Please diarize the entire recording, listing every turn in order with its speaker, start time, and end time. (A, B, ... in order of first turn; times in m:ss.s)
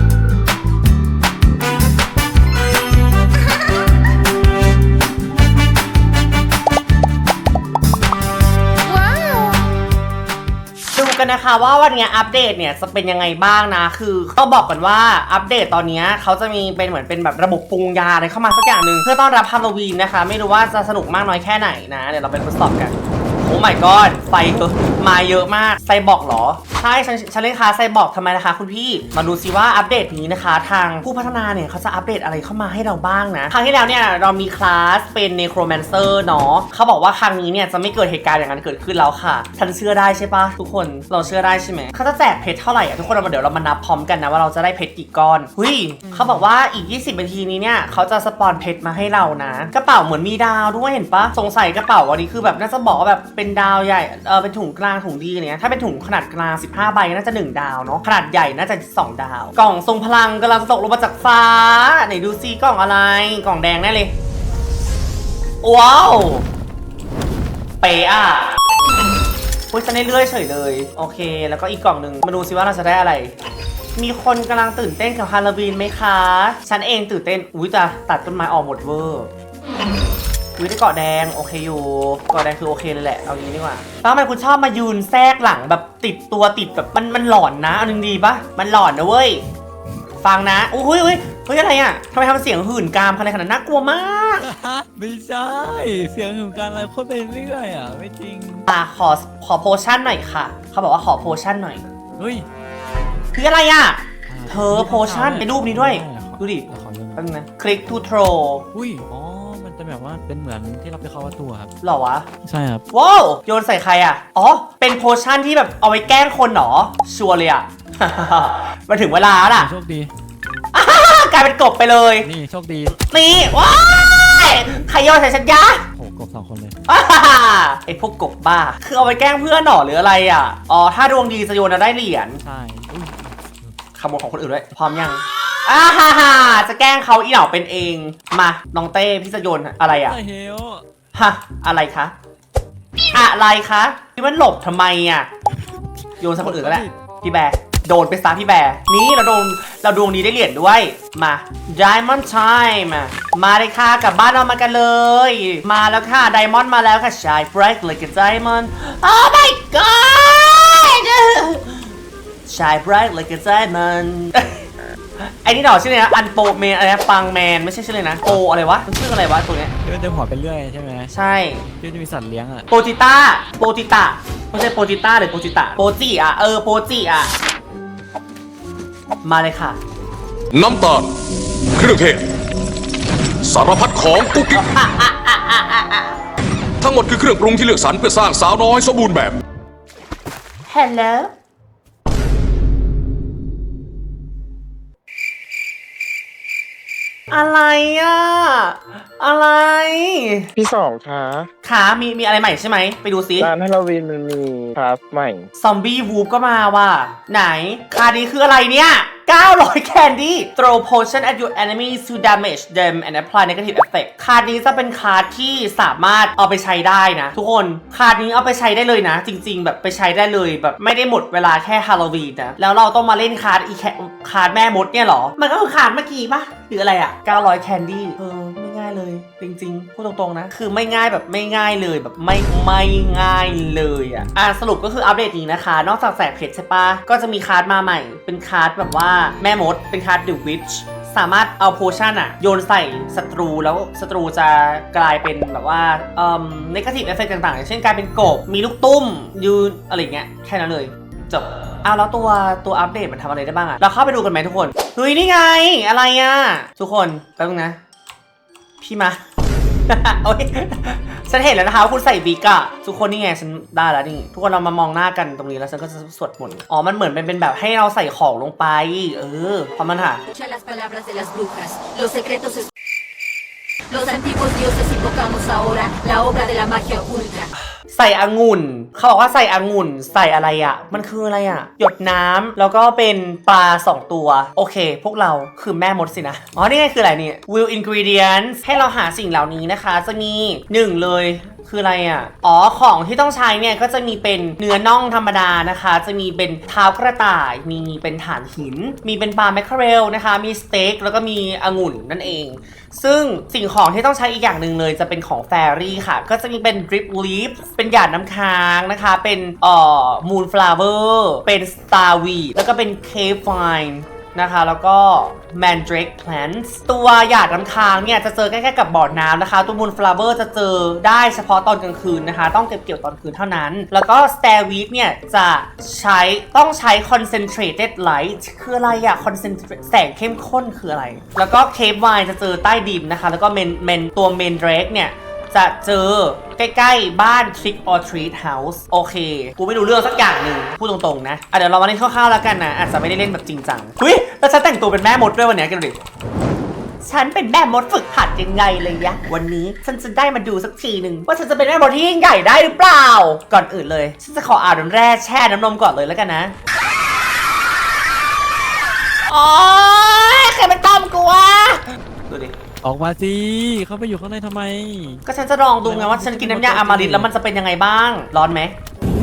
0:10.9-1:04.1 A
1:05.6-1:06.5 A
1:07.8-1:08.5 A
1:09.7-1:13.3 A
1:14.0-1:19.3 A
1:20.6-1:29.4 A
1:30.2-1:34.5 A
1:34.4-1:38.7 B
1:38.7-1:41.8 A
1:42.2-1:42.5 B
1:43.4-1:48.6 A
1:44.3-1:47.2 B
1:48.7-1:51.7 B
1:51.8-1:52.3 A
1:52.4-1:52.8 B
1:52.9-1:59.7 A
1:59.5-2:00.1 B
2:00.7-2:02.3 A
2:02.2-2:03.0 B
2:03.0-2:05.8 A
2:06.0-2:06.8 B
2:06.9-2:12.4 A
2:12.4-2:13.7 B
2:14.0-2:20.2 A
2:19.9-2:20.8 B
2:21.2-2:22.1 A
2:23.1-2:25.3 A
2:26.2-2:41.9 A
2:26.4-2:26.9 B
2:42.5-2:44.7 A
2:45.2-2:49.7 A
2:49.8-2:51.1 B
2:51.1-2:51.6 A
2:51.8-2:52.7 B
2:52.7-2:57.3 A
2:59.2-2:59.8 A
3:00.5-3:01.1 C
3:01.8-3:02.2 C
3:03.4-3:04.6 C
3:04.5-3:06.1 A
3:06.8-3:09.4 C
3:10.7-3:11.3 A
3:17.3-3:20.5 A
3:20.6-3:21.5 D
3:21.6-3:23.5 A
3:23.4-3:25.5 D
3:25.6-4:17.8 A
4:18.8-4:19.2 A
4:19.9-4:30.2 A
4:30.3-4:32.7 E
4:33.9-4:37.5 E
4:37.9-5:46.0 A
5:47.0-5:56.5 A
5:59.3-6:02.5 A
6:02.8-6:05.2 B
6:05.3-6:08.8 A
6:05.8-6:07.3 B